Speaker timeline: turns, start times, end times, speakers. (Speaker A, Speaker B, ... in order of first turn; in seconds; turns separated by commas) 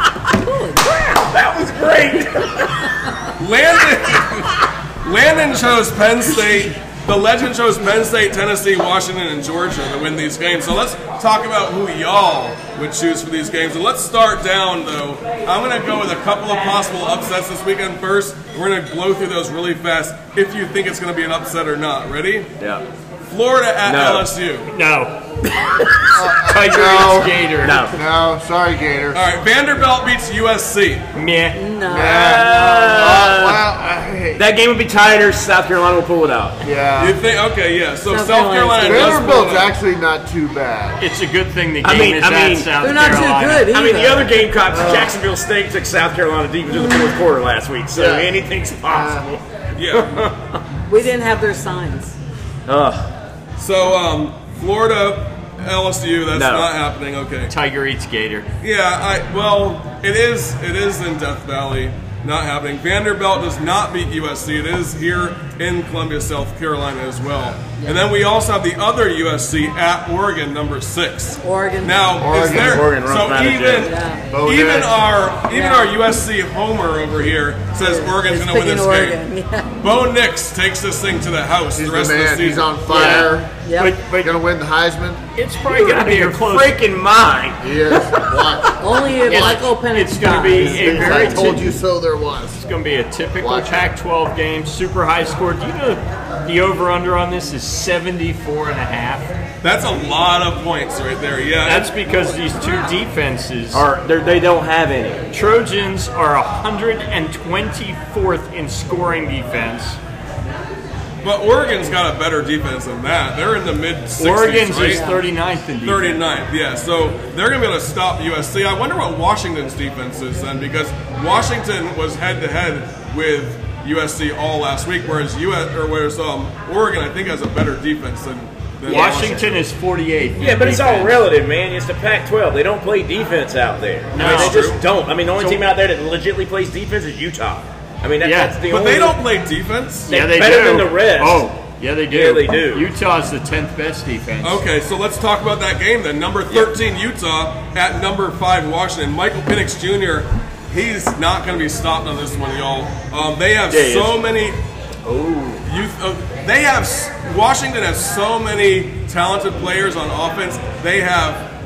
Speaker A: 0.3-1.2, Speaker B: 1.2-2.8, Speaker C: 3.4-22.5, Speaker C: 23.3-24.7, Speaker B: 23.8-24.3, Speaker D: 24.7-25.2, Speaker D: 25.8-27.9, Speaker E: 26.1-29.2, Speaker B: 27.6-27.9, Speaker C: 29.1-31.1, Speaker D: 31.1-31.6, Speaker A: 31.5-32.4, Speaker E: 31.9-34.4, Speaker B: 32.0-33.6, Speaker B: 34.3-36.6, Speaker E: 36.6-37.2, Speaker C: 37.0-39.7, Speaker A: 38.1-39.5, Speaker E: 38.8-41.0, Speaker D: 41.0-43.7, Speaker B: 41.8-42.7, Speaker A: 42.8-44.5, Speaker B: 43.7-50.6, Speaker E: 44.7-45.1, Speaker E: 47.9-49.3, Speaker C: 49.8-50.1, Speaker A: 50.9-52.2, Speaker B: 52.7-53.1, Speaker C: 53.6-57.5, Speaker B: 56.3-56.7, Speaker D: 57.5-58.5, Speaker C: 58.6-73.9, Speaker A: 67.8-68.0, Speaker A: 71.4-72.0, Speaker E: 72.2-72.8, Speaker B: 72.4-73.9, Speaker A: 73.8-74.2, Speaker E: 74.3-75.0, Speaker C: 74.4-79.2, Speaker A: 75.5-75.9, Speaker A: 77.8-79.8, Speaker C: 79.8-82.8, Speaker E: 81.7-83.5, Speaker D: 82.9-84.3, Speaker A: 82.9-83.9, Speaker E: 84.2-85.2, Speaker D: 85.3-86.8, Speaker B: 85.6-88.5, Speaker E: 87.6-88.8, Speaker A: 88.8-91.5, Speaker D: 89.2-91.7, Speaker E: 90.5-92.6, Speaker D: 92.6-99.3, Speaker E: 93.4-93.9, Speaker C: 99.6-101.9, Speaker D: 101.6-103.8, Speaker B: 103.7-105.3, Speaker D: 105.3-110.0, Speaker C: 111.2-115.0, Speaker D: 114.2-116.2, Speaker A: 114.8-115.2, Speaker C: 115.8-129.5, Speaker D: 128.8-131.2, Speaker B: 128.9-129.2, Speaker B: 130.4-139.2, Speaker D: 134.1-134.8, Speaker C: 134.2-134.8, Speaker D: 135.3-135.7, Speaker D: 138.2-138.6, Speaker C: 138.7-140.1, Speaker D: 140.1-144.6, Speaker B: 140.1-141.5, Speaker B: 142.1-142.9, Speaker C: 144.4-154.6, Speaker B: 153.7-154.2, Speaker B: 155.0-155.6, Speaker C: 155.6-161.5